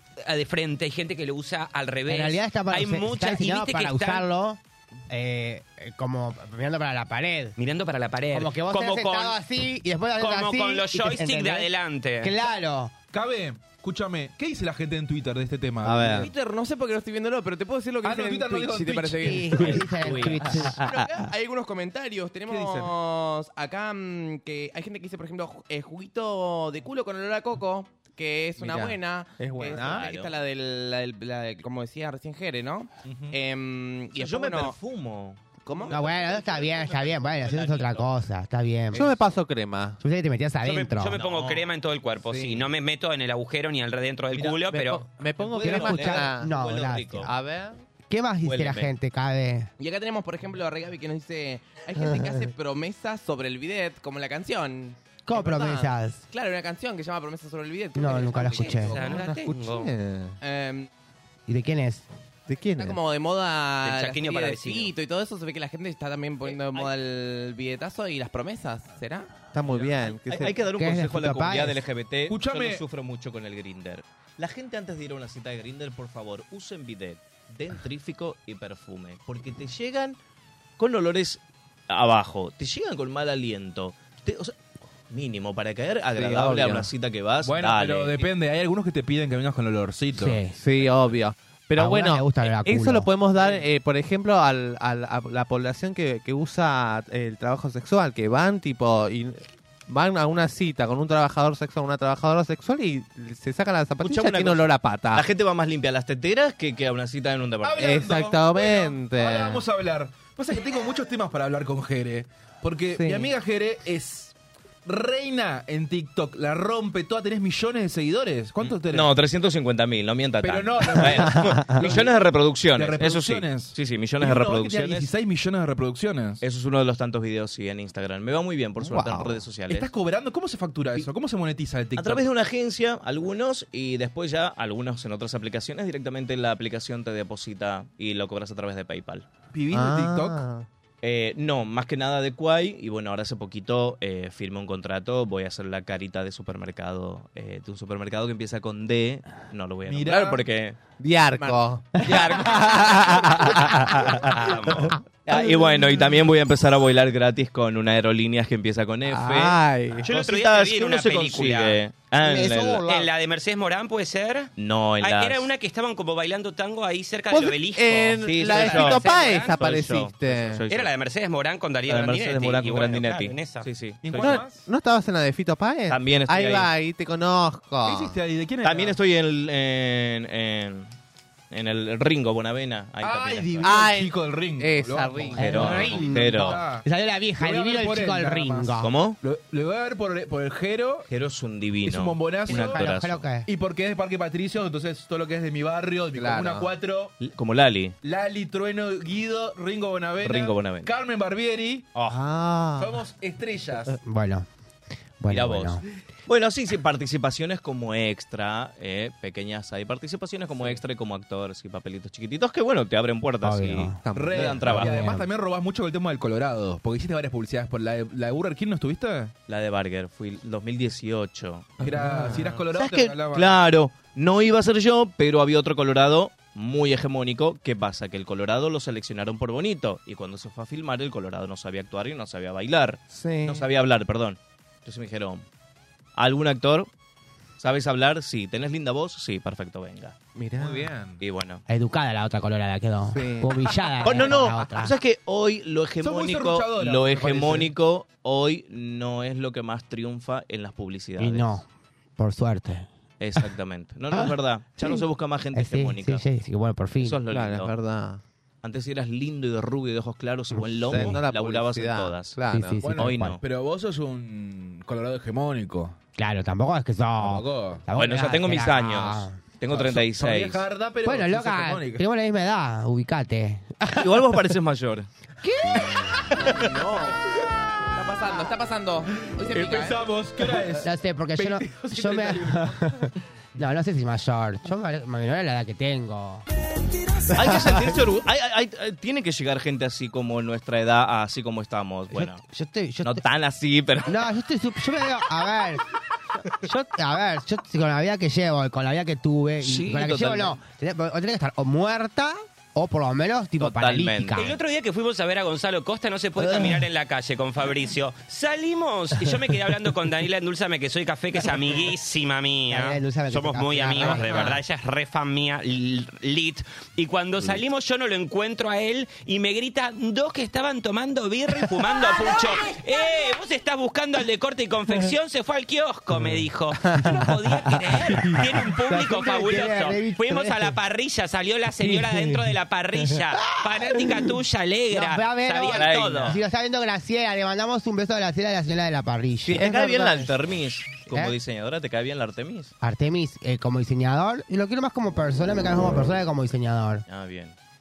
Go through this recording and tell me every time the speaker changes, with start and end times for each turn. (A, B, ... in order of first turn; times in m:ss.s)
0:00.2-0:04.3 A
0:02.1-0:07.6 B
0:07.6-0:09.4 A
0:08.3-0:12.9 B
0:10.2-0:12.3 A
0:13.1-0:16.3 C
0:15.8-0:16.3 D
0:16.1-0:34.8 E
0:18.0-0:19.9 C
0:19.2-0:20.8 B
0:20.0-0:21.0 F
0:22.4-0:22.9 C
0:28.6-0:30.1 D
0:29.7-0:30.3 F
0:33.1-0:33.3 C
0:34.2-0:38.1 F
0:35.6-0:36.3 E
0:35.9-0:39.1 B
0:38.9-0:40.0 D
0:40.0-0:41.2 B
0:40.6-0:45.1 A
0:41.1-0:41.7 F
0:42.3-0:42.6 E
0:44.7-0:46.6 D
0:45.3-0:47.3 F
0:45.6-0:47.2 B
0:47.2-0:47.8 D
0:48.1-0:49.7 B
0:48.4-0:48.9 F
0:49.8-0:59.2 E
0:52.0-0:52.5 D
0:55.2-0:56.2 B
0:58.0-0:58.9 B
0:58.5-0:59.9 A
0:58.9-1:00.4 D
1:00.4-1:00.9 E
1:01.5-1:02.1 B
1:02.5-1:03.0 D
1:02.8-1:10.5 E
1:03.8-1:04.9 A
1:06.5-1:06.9 F
1:09.5-1:10.6 D
1:10.3-1:20.2 F
1:10.6-1:11.8 B
1:12.3-1:12.8 C
1:20.8-1:24.5 F
1:25.1-1:28.3 F
1:26.1-1:26.9 D
1:27.4-1:30.4 C
1:30.1-1:30.6 B
1:30.5-1:45.3 D
1:30.8-1:31.1 F
1:31.8-1:33.1 B
1:44.0-1:48.1 F
1:47.6-1:54.3 C
1:47.8-1:49.6 D
1:53.0-1:53.3 D
1:54.8-1:59.1 C
1:58.6-2:05.1 F
2:00.4-2:06.4 C
2:01.2-2:01.9 D
2:06.4-2:09.9 F
2:08.8-2:09.4 D
2:09.7-2:12.2 C
2:12.0-2:19.2 F
2:19.5-2:20.4 C
2:19.7-2:20.6 D
2:21.0-2:30.8 F
2:29.8-2:30.4 C
2:31.0-2:34.2 D
2:32.0-2:33.2 F
2:33.9-2:34.2 F
2:34.3-2:35.0 A
2:35.2-2:42.9 F
2:39.0-2:40.0 D
2:40.0-2:41.8 A
2:42.8-2:49.5 A
2:44.6-2:45.5 F
2:47.3-2:50.6 D
2:48.2-2:50.9 F
2:50.7-2:53.7 A
2:51.9-2:54.4 F
2:54.0-2:54.7 C
2:54.1-2:58.2 D
2:55.9-2:56.7 F
2:57.8-2:59.0 C
2:58.6-3:00.9 F
3:01.5-3:03.8 F
3:03.0-3:06.8 C
3:03.6-3:06.1 D
3:05.3-3:06.6 F
3:05.4-3:08.9 B
3:07.4-3:11.1 C
3:08.8-3:09.2 F
3:11.1-3:13.3 F
3:11.8-3:12.9 C
3:12.5-3:13.5 B
3:13.4-3:17.2 C
3:16.1-3:16.7 D
3:17.2-3:17.9 F
3:18.0-3:21.9 C
3:20.2-3:20.9 F
3:22.1-3:23.0 D
3:22.8-3:24.0 C
3:24.0-3:24.5 B
3:25.2-3:25.8 B
3:25.3-3:35.0 F
3:33.4-3:34.0 B
3:34.0-3:35.2 D
3:34.1-3:39.3 C
3:34.6-3:35.2 B
3:39.5-3:55.4 F
3:41.8-3:43.6 C
3:41.8-3:42.5 D
3:53.1-3:53.7 D
3:56.2-3:56.9 F
3:57.6-4:00.1 F
4:00.3-4:00.9 D
4:00.6-4:01.2 C
4:01.2-4:01.6 F
4:01.7-4:04.9 B
4:03.1-4:03.5 D
4:04.0-4:11.6 F
4:06.0-4:07.7 C
4:11.2-4:11.6 B
4:12.2-4:12.9 B
4:13.2-4:16.2 F
4:14.1-4:15.0 B
4:15.5-4:17.2 B
4:17.0-4:17.7 F
4:17.3-4:18.2 D
4:18.6-4:22.4 F
4:20.5-4:23.0 D
4:22.5-4:23.3 B
4:22.8-4:26.0 C
4:23.0-4:23.4 F
4:26.2-4:29.4 B
4:27.2-4:27.8 C
4:28.0-4:30.6 F
4:29.7-4:32.0 C
4:31.0-4:34.0 B
4:33.9-4:35.1 F
4:35.4-4:36.4 B
4:36.4-4:37.2 E
4:37.9-4:40.0 E
4:39.2-4:43.1 C
4:40.8-4:46.4 B
4:47.3-4:52.4 F
4:52.1-4:53.2 B
4:53.0-4:54.3 F
4:54.0-4:55.8 B
4:56.6-5:04.6 B
4:59.6-5:00.6 F
5:03.6-5:04.4 F
5:04.4-5:36.4 A
5:12.7-5:14.6 B
5:14.0-5:14.5 C
5:26.9-5:27.2 B
5:28.1-5:30.8 B
5:31.8-5:32.5 B
5:33.1-5:34.3 B
5:34.9-5:39.6 B
5:35.7-5:36.4 F
5:39.4-5:40.3 D
5:39.5-5:42.7 F
5:42.8-5:47.0 B
5:47.1-5:47.5 F